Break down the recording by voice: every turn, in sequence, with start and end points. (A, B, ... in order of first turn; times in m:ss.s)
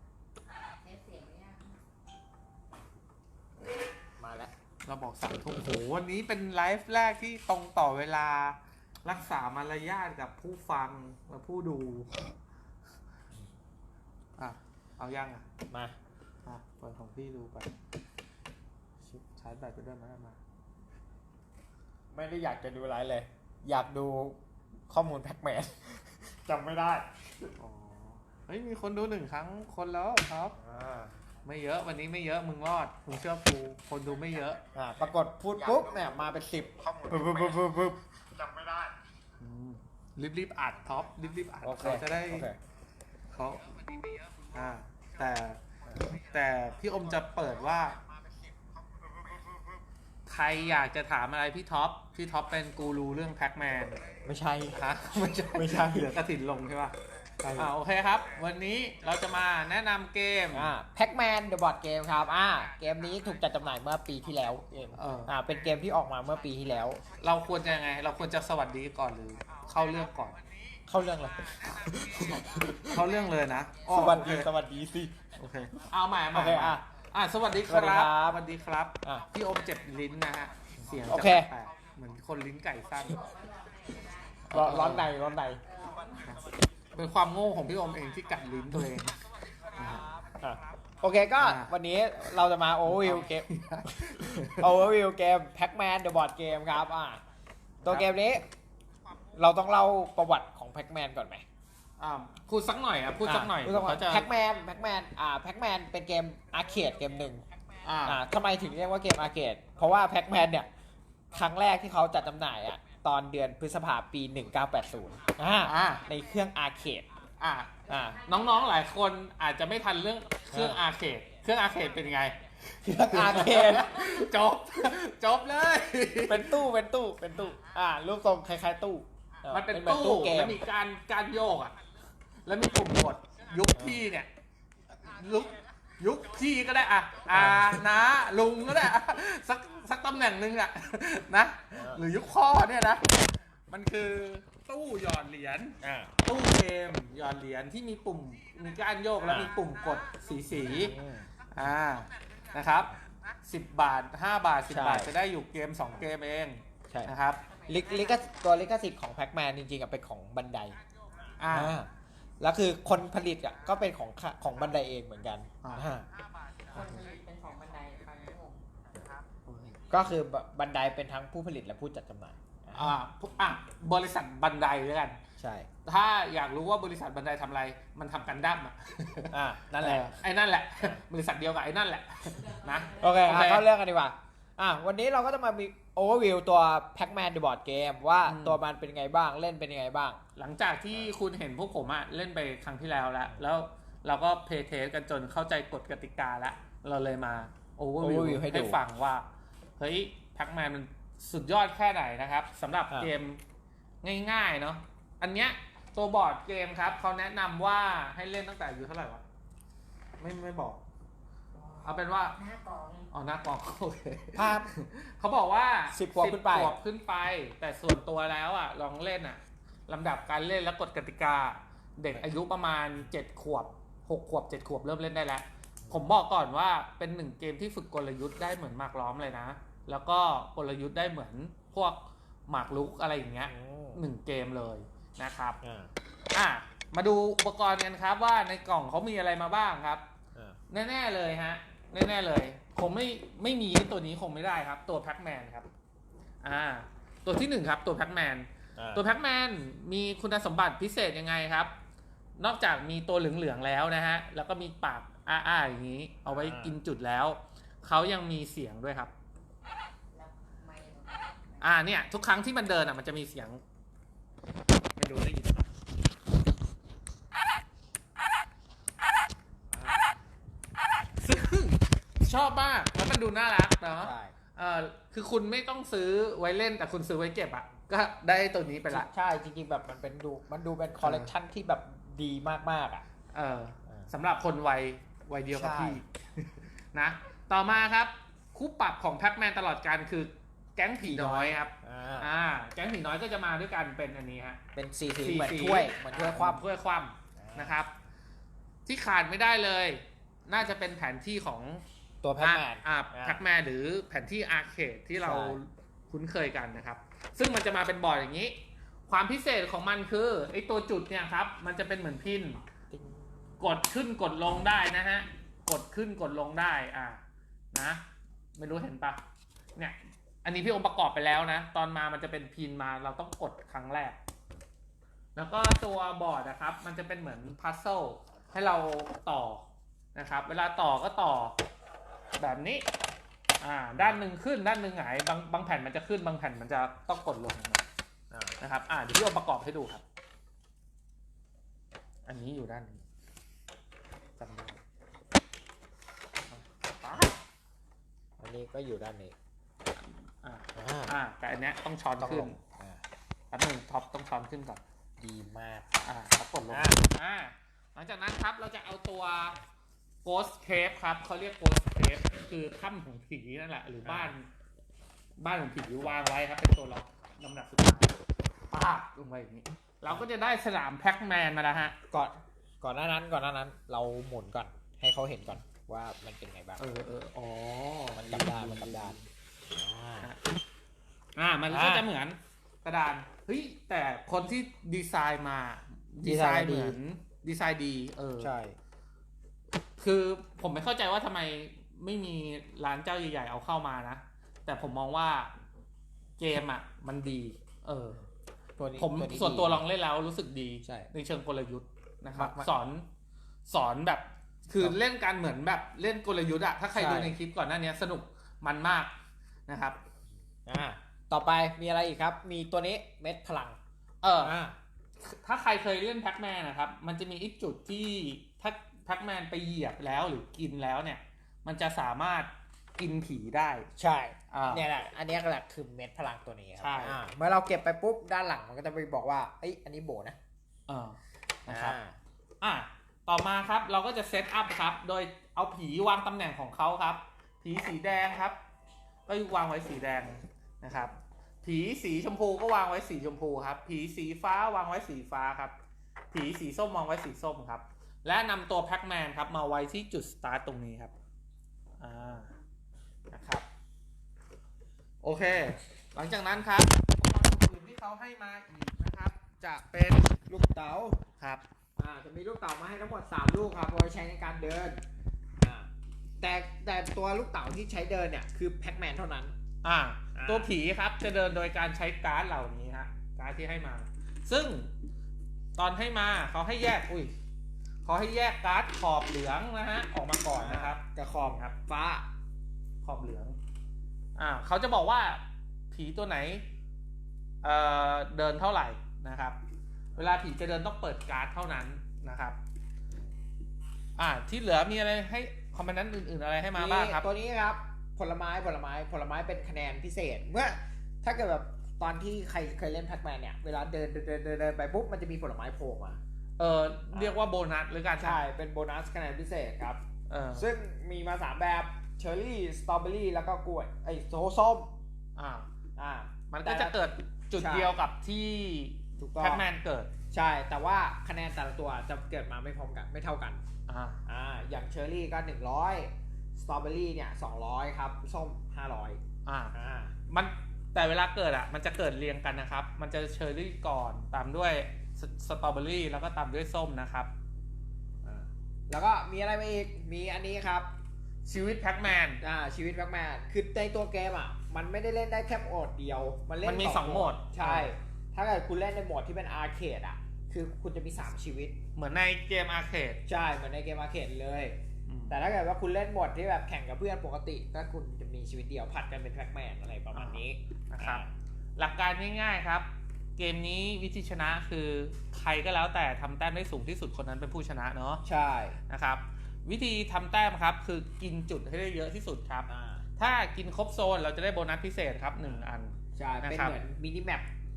0:00.8-0:01.7 A
0:04.2-0:04.5 B
0:04.8-0:12.4 C
0:14.4-0:15.4 C
0:15.7-0:16.0 B
0:16.4-0:17.7 C
0:19.0-0:20.4 C
0:22.1-0:27.3 B
0:27.6-0:30.6 C
0:30.6-0:31.1 B
0:31.4-0:34.6 C
0:34.8-0:38.9 B
0:39.4-0:42.5 C
0:41.6-0:42.6 B
0:43.3-0:48.0 C
0:50.3-0:54.1 C
0:54.2-0:54.8 B
0:54.7-0:57.0 C
0:55.5-0:56.2 B
0:57.4-0:57.7 B
0:57.5-1:00.7 C
1:00.5-1:07.0 B
1:05.0-1:05.3 C
1:07.2-1:10.4 C
1:10.9-1:12.7 B
1:11.9-1:14.5 C
1:13.9-1:15.2 B
1:15.4-1:23.2 C
1:16.3-1:16.8 B
1:17.7-1:18.4 B
1:21.1-1:21.5 B
1:23.1-1:24.5 A
1:24.5-1:25.2 C
1:24.5-1:25.6 B
1:25.7-1:26.2 A
1:26.2-1:29.2 C
1:29.7-1:30.1 C
1:30.4-1:33.5 B
1:31.4-1:31.7 C
1:32.8-1:34.8 C
1:34.5-1:37.2 B
1:37.8-1:38.5 B
1:39.3-1:41.4 B
1:42.0-1:44.3 C
1:43.2-1:47.4 B
1:47.8-1:48.2 C
1:48.0-1:50.7 B
1:51.3-1:57.1 B
1:55.6-1:56.1 C
1:57.4-2:06.6 C
1:57.9-1:58.2 B
2:00.5-2:00.8 B
2:02.8-2:04.0 B
2:06.3-2:10.6 B
2:09.5-2:11.8 C
2:12.4-2:14.3 C
2:13.8-2:14.0 B
2:15.0-2:31.0 C
2:17.3-2:17.8 B
2:21.7-2:22.0 B
2:25.8-2:26.1 B
2:29.3-2:29.6 B
2:30.5-2:31.3 B
2:31.5-2:37.4 C
2:34.7-2:35.1 B
2:37.5-2:38.6 A
2:37.7-2:40.8 B
2:41.4-2:41.8 C
2:41.5-2:41.9 B
2:42.4-2:46.1 B
2:45.6-2:45.9 C
2:46.7-2:48.6 A
2:49.2-2:49.8 C
2:49.9-2:53.0 B
2:52.7-2:55.2 C
2:55.4-2:55.7 B
2:55.8-3:03.7 C
2:59.3-3:00.2 B
3:02.6-3:03.3 A
3:03.0-3:10.2 B
3:08.2-3:08.6 C
3:10.4-3:19.3 C
3:18.0-3:18.8 B
3:19.8-3:23.4 C
3:24.0-3:29.2 C
3:30.2-3:30.8 C
3:31.6-3:33.1 A
3:31.8-3:32.4 C
3:33.1-3:55.6 C
3:34.3-3:34.7 B
3:35.9-3:36.8 B
3:53.5-3:54.0 B
3:55.6-3:55.9 B
3:56.3-4:00.0 C
4:00.7-4:05.7 C
4:06.4-4:11.7 C
4:08.8-4:09.1 B
4:12.4-4:19.1 C
4:16.3-4:16.8 B
4:20.1-4:21.9 A
4:21.6-4:23.6 C
4:25.0-4:25.7 C
4:29.7-4:30.0 B
4:31.2-4:39.1 C
4:34.0-4:34.4 B
4:38.9-4:43.0 B
4:41.0-4:41.3 C
4:43.3-4:54.6 C
4:45.5-4:46.0 B
4:51.0-4:52.3 B
4:54.8-4:56.6 B
4:55.2-4:57.9 C
4:57.4-4:57.8 B
4:58.9-5:01.8 C
5:02.2-5:03.4 B
5:02.4-5:08.6 C
5:05.2-5:05.6 B
5:09.1-5:12.6 C
5:12.9-5:13.4 B
5:13.6-5:17.2 C
5:17.7-5:18.0 C
5:18.6-5:19.2 C
5:19.8-5:24.2 C
5:25.4-5:31.6 C
5:32.4-5:32.9 C
5:33.6-5:37.8 C
5:34.0-5:34.2 B
5:38.3-5:38.6 B
5:38.6-5:40.0 C
5:42.3-5:43.0 C
5:44.4-5:44.8 C
5:46.5-5:47.4 C
5:48.4-5:49.4 B
5:50.4-5:52.6 C
5:50.8-5:51.2 B
5:52.2-5:53.0 B
5:53.5-5:54.8 C
5:55.2-5:55.9 B
5:56.0-5:59.6 C
5:56.7-5:57.0 B
6:00.2-6:04.5 C
6:04.0-6:04.3 B
6:05.4-6:08.2 C
6:08.7-6:12.0 C
6:12.1-6:16.9 B
6:16.8-6:19.2 C
6:18.2-6:19.2 B
6:19.7-6:20.3 B
6:21.4-6:28.5 C
6:21.7-6:22.1 B
6:26.2-6:27.0 B
6:28.4-6:28.8 B
6:30.0-6:35.5 C
6:36.4-6:38.2 C
6:38.8-6:39.8 B
6:39.0-6:43.1 C
6:40.8-6:41.1 B
6:42.4-6:42.7 B
6:43.7-6:49.1 C
6:46.9-6:47.4 B
6:49.7-6:50.0 C
6:50.7-6:53.8 B
6:54.2-6:54.6 C
6:54.4-6:54.8 B
6:55.2-7:03.9 C
7:04.0-7:10.4 B
7:04.5-7:04.9 C
7:06.8-7:07.2 C
7:10.9-7:12.0 C
7:11.7-7:12.2 B
7:12.6-7:18.6 C
7:19.3-7:25.7 C
7:26.3-7:31.1 C
7:32.0-7:32.5 C
7:33.3-7:33.6 C
7:35.2-7:40.4 C
7:40.5-7:41.2 B
7:42.0-7:45.0 B
7:45.6-7:49.5 B
7:49.8-7:54.9 C
7:50.4-7:50.7 B
7:55.8-7:57.3 C
7:58.0-8:01.8 C
8:00.5-8:02.3 B
8:03.0-8:03.6 C
8:04.4-8:06.6 C
8:07.6-8:09.6 C
8:10.2-8:12.6 C
8:14.2-8:17.3 C
8:16.7-8:26.2 B
8:26.6-8:28.4 C
8:28.2-8:30.0 B
8:30.3-8:30.7 C
8:30.5-8:34.9 B
8:35.4-8:35.7 C
8:36.0-8:37.0 B
8:36.5-8:40.1 C
8:37.6-8:37.9 B
8:39.2-8:39.7 B
8:40.3-8:43.6 B
8:43.9-8:44.2 C
8:44.3-8:49.2 B
8:49.5-8:49.8 C
8:49.7-8:50.2 B
8:50.3-8:57.3 C
8:58.2-9:00.9 B
9:01.5-9:02.4 C
9:02.4-9:11.8 B
9:06.6-9:07.9 C
9:12.0-9:13.2 C
9:13.3-9:14.8 B
9:15.1-9:15.4 C
9:15.3-9:21.3 B
9:20.2-9:21.2 C
9:21.8-9:28.2 C
9:28.2-9:28.8 B
9:28.9-9:36.8 C
9:32.7-9:33.0 B
9:35.4-9:37.5 B